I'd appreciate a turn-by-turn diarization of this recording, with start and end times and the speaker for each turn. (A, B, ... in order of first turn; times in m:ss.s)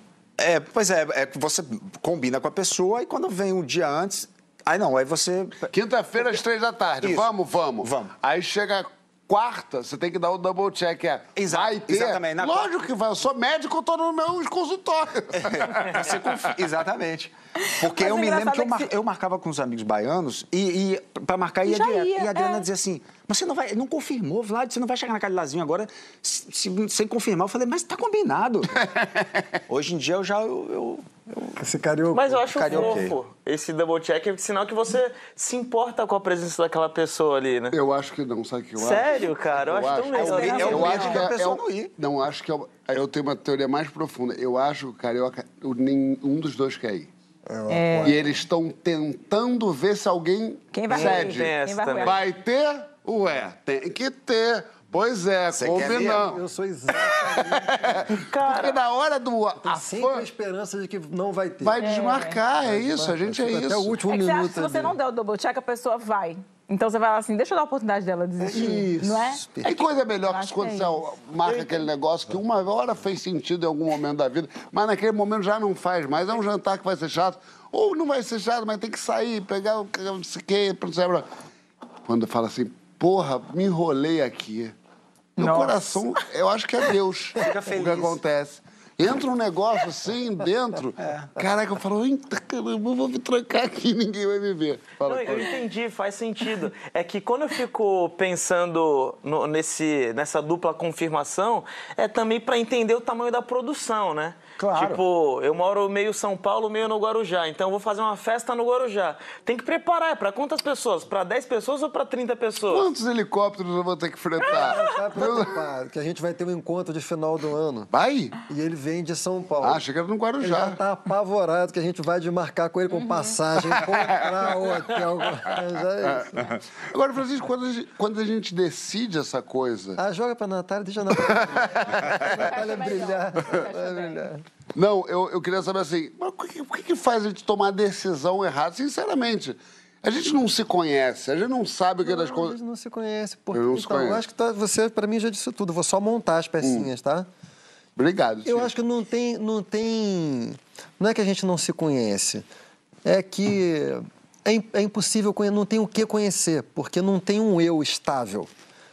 0:00.4-0:05.6 A
0:05.7-0:16.2 B
0:07.0-0:08.1 A
0:11.4-0:12.7 A
0:15.4-0:28.8 A
0:17.6-0:18.9 C
0:21.6-0:22.6 C
0:28.8-0:29.6 B
0:29.7-0:31.5 A
0:31.6-0:33.0 D
0:32.1-0:37.8 E
0:32.5-0:33.2 A
0:37.7-0:47.1 B
0:38.8-0:41.2 E
0:40.2-0:41.1 C
0:40.2-0:41.9 A
0:47.7-0:48.2 C
0:48.0-0:56.4 B
0:50.7-0:52.2 C
0:50.9-0:52.2 E
0:55.5-0:56.4 A
0:55.8-0:58.1 D
0:57.0-1:00.2 B
0:58.2-0:58.8 E
0:59.6-1:01.8 D
1:01.6-1:03.9 B
1:01.8-1:02.4 C
1:02.6-1:04.9 D
1:04.1-1:11.1 C
1:08.4-1:09.7 D
1:09.6-1:21.2 B
1:11.4-1:11.8 E
1:22.0-1:24.7 B
1:25.4-1:25.7 C
1:25.4-1:35.6 B
1:27.4-1:28.2 A
1:31.0-1:31.3 A
1:35.0-1:52.9 E
1:44.6-1:45.0 A
1:52.7-1:55.5 B
1:54.5-1:57.9 D
1:57.9-1:58.3 B
1:58.5-1:59.8 D
1:59.6-2:00.8 B
2:00.4-2:06.5 D
2:02.9-2:03.4 C
2:03.7-2:04.7 B
2:06.1-2:10.0 B
2:10.0-2:14.4 D
2:11.2-2:12.4 B
2:12.1-2:14.3 C
2:14.7-2:22.6 B
2:22.0-2:27.3 D
2:23.5-2:24.2 B
2:28.0-2:28.7 B
2:28.4-2:32.4 D
2:33.0-2:38.5 D